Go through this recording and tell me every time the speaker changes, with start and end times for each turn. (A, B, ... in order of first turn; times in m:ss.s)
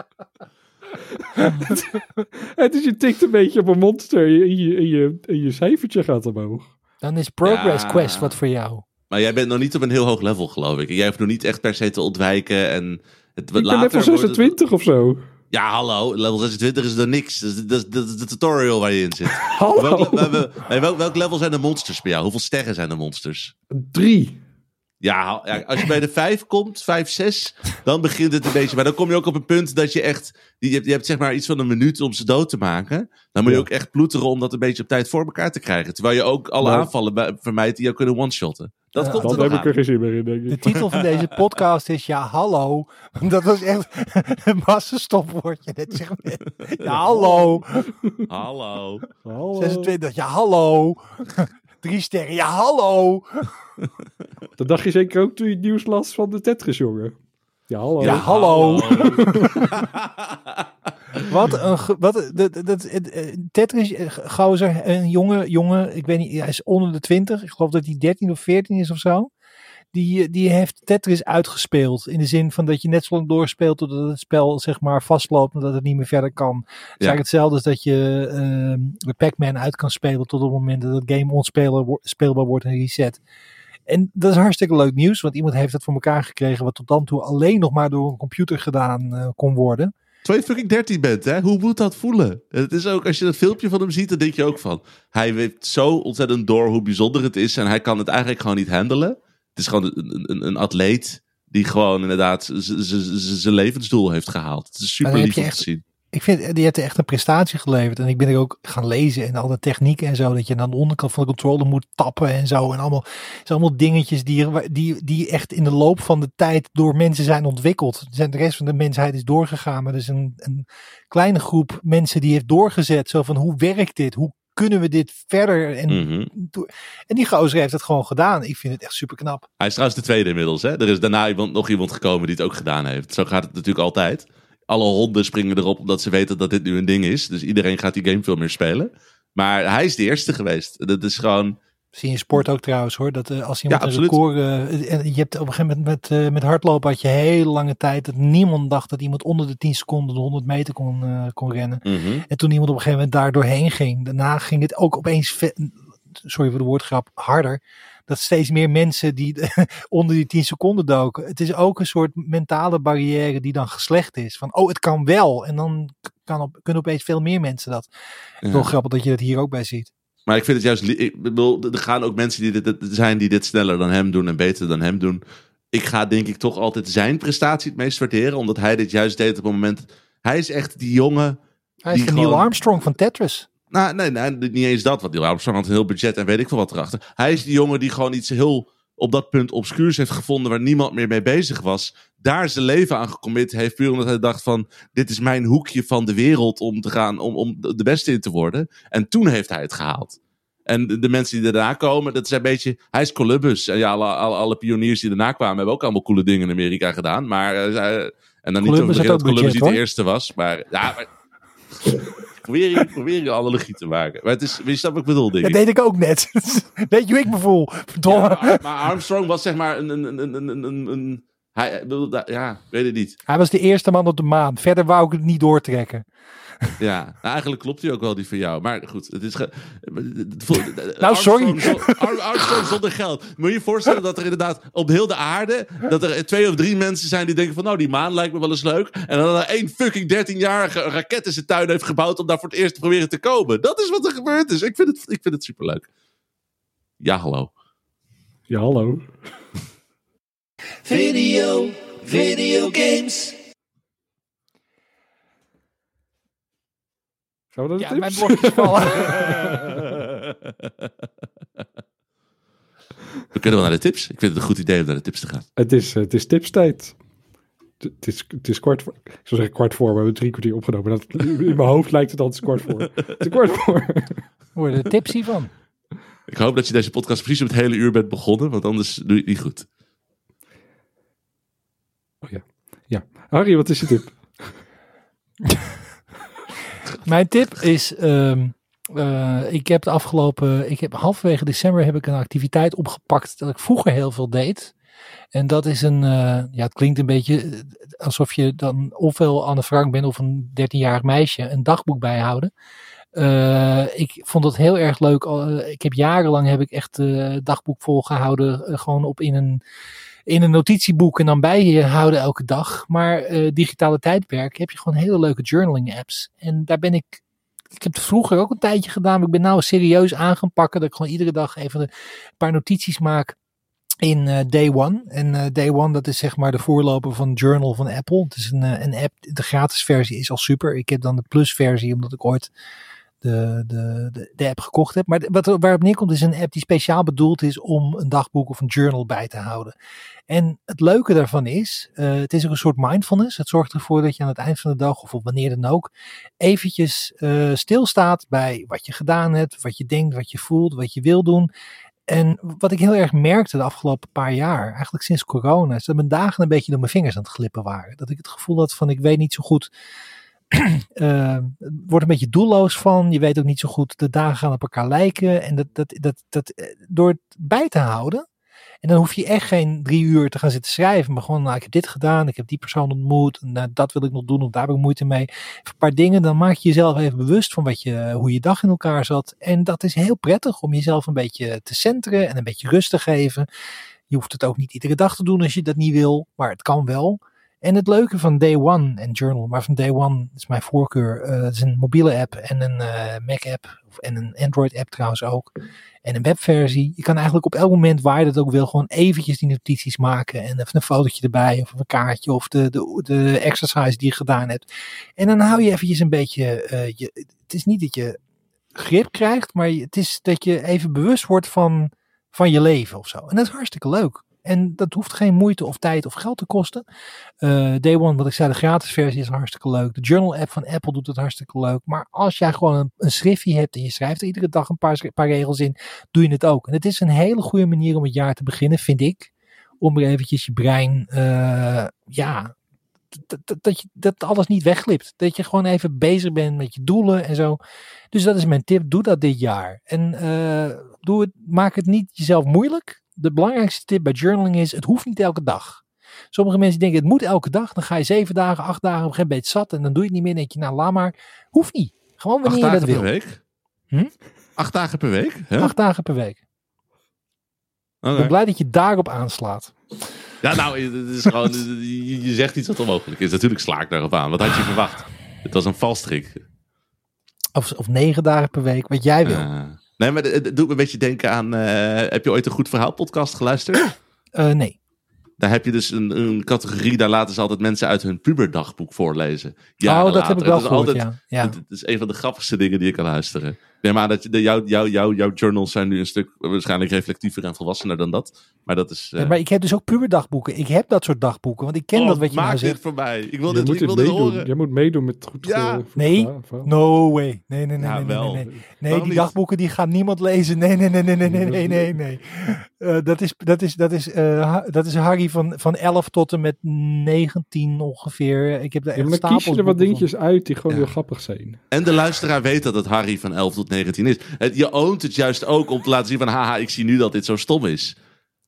0:01.2-0:06.7 A
0:01.4-0:01.8 B
0:07.0-0:08.8 B
0:07.4-0:08.4 C
0:09.1-0:14.6 C
0:13.6-0:15.2 A
0:15.5-0:23.5 C
0:19.5-0:20.4 A
0:23.7-0:24.4 A
0:25.0-0:39.7 C
0:36.6-0:36.9 A
0:39.0-0:39.6 B
0:39.1-0:40.8 A
0:40.5-0:47.8 B
0:40.8-0:41.2 C
0:46.9-0:48.3 A
0:48.3-0:49.0 C
0:49.2-0:49.9 A
0:49.6-0:53.5 B
0:54.6-0:57.2 A
0:57.7-0:59.8 A
0:58.0-0:59.7 B
0:58.0-1:01.3 C
1:01.2-1:09.3 B
1:09.9-1:23.2 B
1:23.9-1:29.9 B
1:30.2-1:45.8 C
1:45.0-2:09.5 B
2:05.9-2:06.3 C
2:09.6-2:21.6 C
2:21.9-2:47.9 B
2:23.7-2:24.2 C
2:31.8-2:32.2 C
2:48.4-2:48.8 C
2:48.4-2:49.9 B
2:50.3-2:55.2 C
2:55.7-3:01.4 C
3:01.8-3:03.5 B
3:01.9-3:02.5 C
3:03.7-3:31.1 C
3:28.6-3:29.8 B
3:31.8-3:35.6 C
3:35.4-3:38.7 B
3:38.1-3:43.2 C
3:43.3-3:46.1 B
3:46.8-4:05.9 C
3:51.0-3:52.7 B
4:07.0-4:07.5 C
4:08.5-4:09.2 A
4:10.8-4:13.4 B
4:17.5-4:19.9 A
4:17.8-4:19.7 B
4:23.3-4:25.4 C
4:25.6-4:27.0 A
4:27.8-4:34.2 A
4:34.6-4:35.5 B
4:36.3-4:39.7 C
4:42.2-4:44.5 A
4:47.0-4:54.7 B
4:55.3-5:02.5 B
5:03.2-5:09.6 B
5:10.3-5:17.2 B
5:17.8-5:21.9 B
5:22.4-5:23.4 B
5:24.0-5:32.5 B
5:33.2-5:39.7 B
5:40.3-5:51.5 B
5:52.1-5:59.7 B
6:00.5-6:08.2 B
6:08.8-6:23.5 B
6:24.1-6:35.5 B
6:36.0-6:44.7 B
6:45.2-6:48.2 B
6:48.8-6:56.8 B
6:57.4-7:12.5 B
7:13.3-7:17.6 B
7:18.1-7:33.1 B
7:32.4-7:33.4 C
7:34.6-7:35.7 C
7:35.6-7:36.4 B
7:38.0-7:38.4 C
7:38.2-7:39.7 B
7:40.4-7:46.4 C
7:47.6-7:49.5 B
7:49.2-7:53.8 C
7:54.4-7:54.8 B
7:55.4-8:09.4 C
7:59.8-8:01.6 B
8:09.2-8:12.8 B
8:11.9-8:14.5 C
8:13.5-8:16.7 A
8:15.4-8:15.8 C
8:16.0-8:30.1 B
8:17.8-8:19.3 C
8:21.2-8:22.0 A
8:29.0-8:31.6 A
8:31.7-8:38.0 C